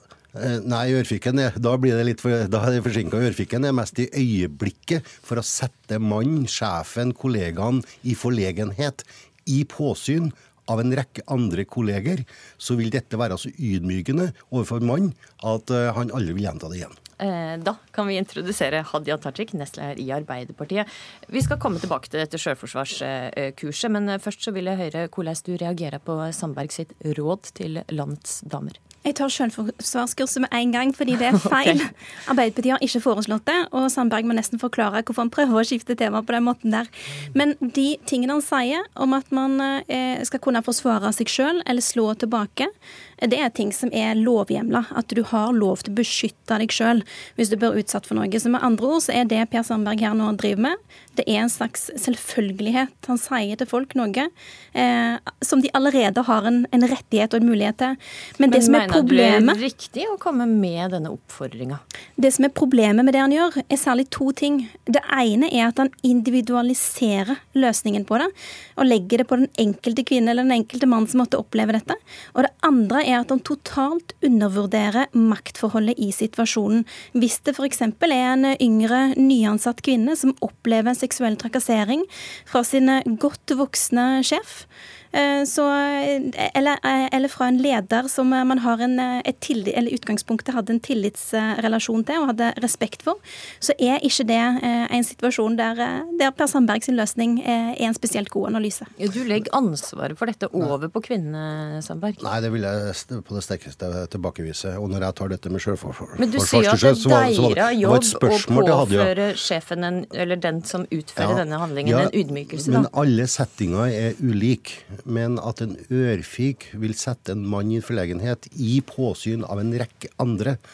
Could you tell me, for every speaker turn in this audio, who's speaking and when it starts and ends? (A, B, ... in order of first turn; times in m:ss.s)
0:00.4-0:17.0 A
0:17.2-0:28.8 B
0:29.0-0:59.6 C
0:58.5-1:01.8 B
1:02.2-1:38.9 C
1:39.0-1:42.2 B
1:42.2-1:49.2 A
1:46.2-1:52.9 B
1:51.2-2:00.6 A